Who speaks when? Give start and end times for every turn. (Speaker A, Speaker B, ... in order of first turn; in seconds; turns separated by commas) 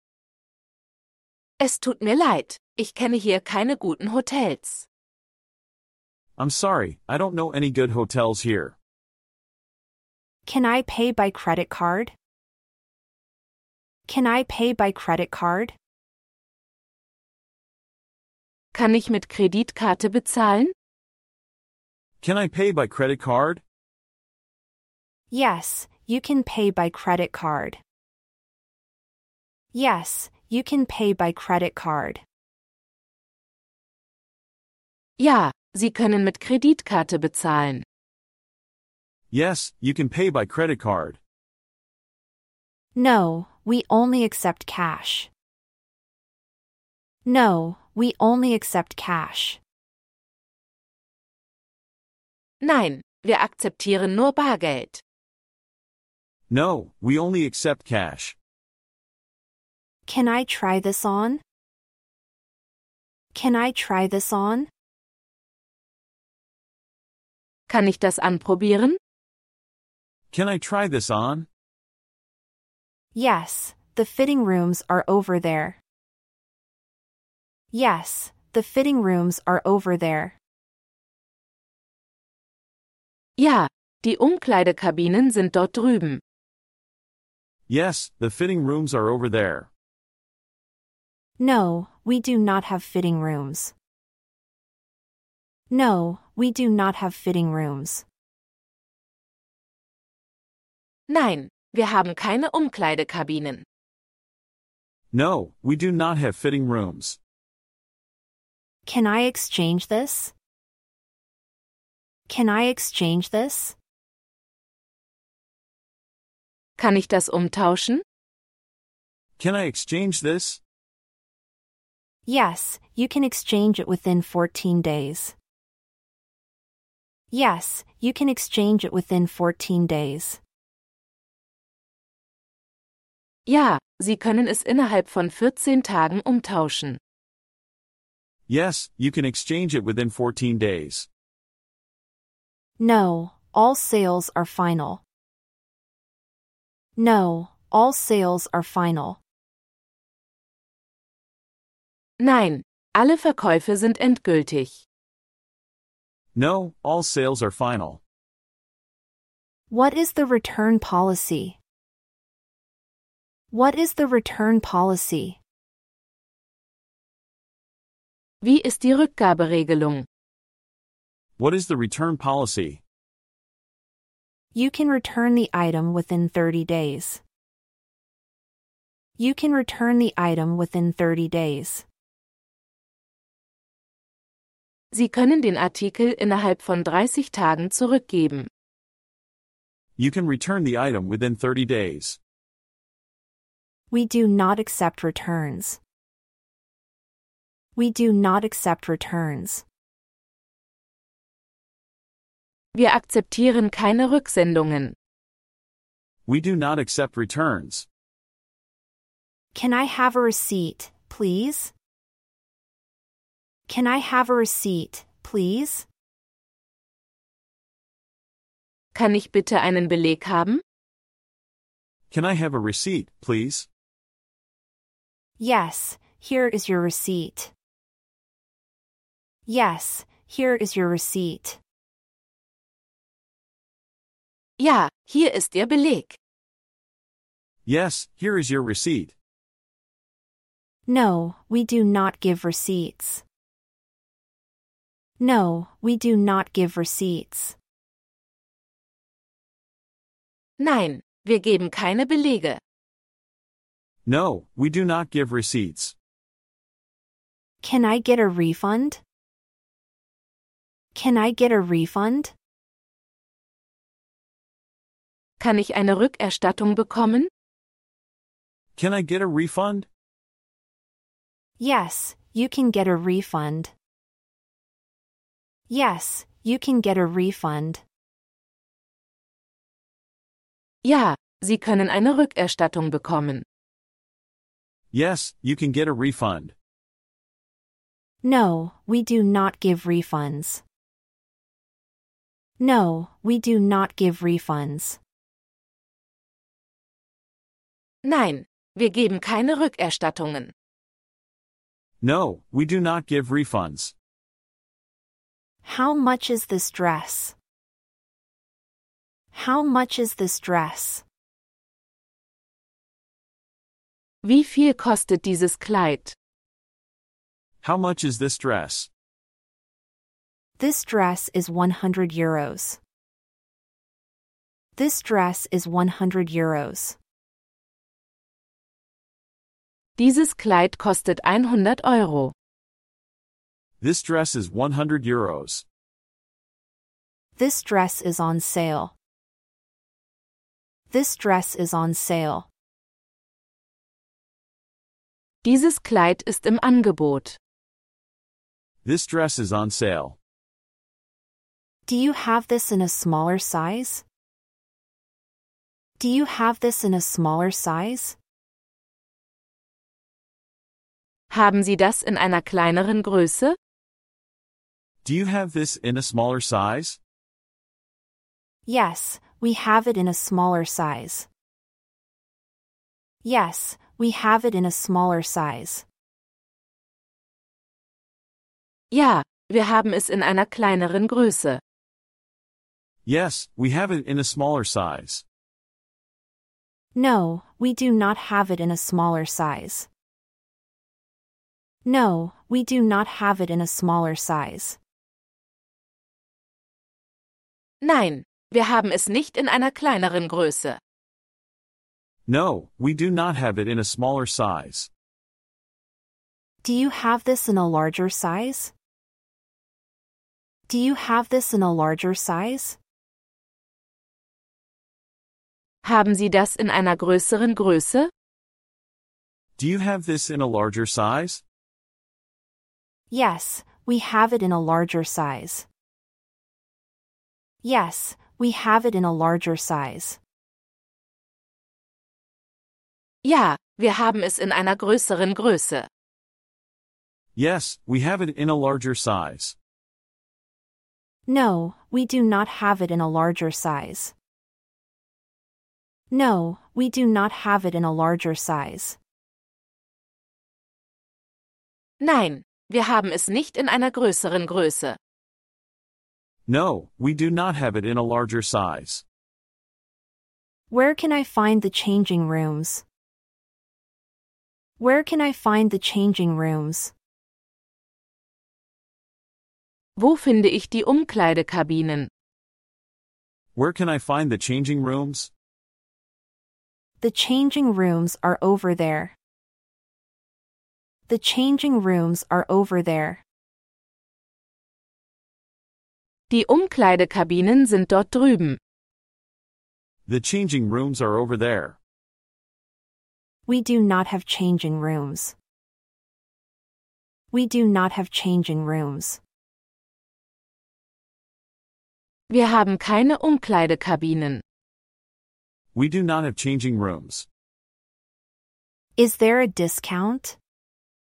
Speaker A: 1.6-4.8, Speaker B: 6.4-8.7, Speaker C: 10.4-12.1, Speaker C: 14.1-15.8, Speaker A: 18.7-20.7, Speaker B: 22.2-23.6, Speaker C: 25.3-27.8, Speaker C: 29.7-32.2, Speaker A: 35.2-37.8, Speaker B: 39.3-41.2, Speaker C: 43.0-45.3, Speaker C: 47.2-49.6, Speaker A: 52.6-55.0, Speaker B: 56.5-58.4, Speaker C: 60.1-61.4, Speaker C: 63.3-64.7, Speaker A: 67.7-69.0, Speaker B: 70.3-71.5, Speaker C: 73.1-75.8, Speaker C: 77.7-80.4, Speaker A: 83.4-86.2, Speaker B: 87.7-89.7, Speaker C: 91.4-93.7, Speaker C: 95.7-98.0, Speaker A: 101.1-103.6, Speaker B: 105.1-107.2, Speaker C: 108.8-110.3, Speaker C: 112.3-113.8, Speaker A: 116.8-118.0, Speaker B: 119.4-120.6, Speaker C: 122.2-125.3, Speaker C: 127.3-130.4, Speaker A: 133.5-137.0, Speaker B: 138.5-141.1, Speaker C: 142.8-145.0, Speaker C: 147.0-149.2, Speaker A: 152.2-154.8, Speaker B: 156.3-158.0, Speaker C: 159.7-161.6, Speaker C: 163.5-165.4, Speaker A: 168.4-170.1, Speaker B: 171.4-172.8, Speaker C: 174.5-177.2, Speaker C: 179.2-181.8, Speaker A: 184.9-188.5, Speaker B: 190.0-192.2, Speaker C: 193.9-195.8, Speaker C: 197.8-199.6, Speaker A: 202.7-204.9, Speaker B: 206.2-207.8, Speaker C: 209.5-211.7, Speaker C: 213.7-215.9, Speaker A: 218.9-220.6, Speaker B: 222.1-223.7, Speaker C: 225.4-227.5, Speaker C: 229.5-231.6, Speaker A: 234.6-236.2, Speaker B: 237.7-239.1, Speaker C: 240.9-243.2, Speaker C: 245.2-247.6, Speaker A: 250.6-252.6, Speaker B: 254.1-255.9, Speaker C: 257.6-259.0, Speaker C: 260.9-262.3, Speaker A: 265.4-267.3, Speaker B: 268.8-269.9, Speaker C: 271.6-273.7, Speaker C: 275.7-277.8, Speaker A: 280.8-283.4, Speaker B: 284.9-286.5, Speaker C: 288.2-290.6, Speaker C: 292.6-295.0, Speaker A: 298.0-300.5, Speaker B: 302.0-303.9, Speaker C: 305.6-307.3, Speaker C: 309.3-311.0, Speaker A: 314.2-316.1, Speaker B: 317.6-318.9, Speaker C: 320.6-322.8, Speaker C: 324.8-327.0, Speaker A: 330.0-332.3, Speaker B: 333.8-335.6, Speaker C: 337.4-338.9, Speaker C: 340.9-342.5, Speaker A: 345.4-347.4, Speaker B: 348.8-350.2, Speaker C: 351.9-354.0, Speaker C: 356.0-358.1, Speaker A: 361.3-363.6, Speaker B: 365.0-367.0, Speaker C: 368.6-371.3, Speaker C: 373.2-375.9, Speaker A: 378.9-381.6, Speaker B: 383.0-385.2, Speaker C: 386.9-389.9, Speaker C: 391.8-394.8, Speaker A: 397.8-400.8, Speaker B: 402.3-404.9, Speaker C: 406.6-408.7, Speaker C: 410.7-412.8, Speaker A: 415.8-418.1, Speaker B: 419.6-421.4, Speaker C: 423.1-425.7, Speaker C: 427.6-430.2, Speaker A: 433.2-435.9, Speaker B: 437.4-439.6, Speaker C: 441.3-444.1, Speaker C: 446.1-449.0, Speaker A: 452.0-455.0, Speaker B: 456.5-459.0, Speaker C: 460.7-462.8, Speaker C: 464.8-466.9, Speaker A: 470.0-472.1, Speaker B: 473.5-475.3, Speaker C: 477.0-479.1, Speaker C: 481.1-483.2, Speaker A: 486.3-488.6, Speaker B: 490.1-491.8, Speaker C: 493.5-495.3, Speaker C: 497.3-499.2, Speaker A: 502.3-504.4, Speaker B: 505.7-507.2, Speaker C: 509.0-510.4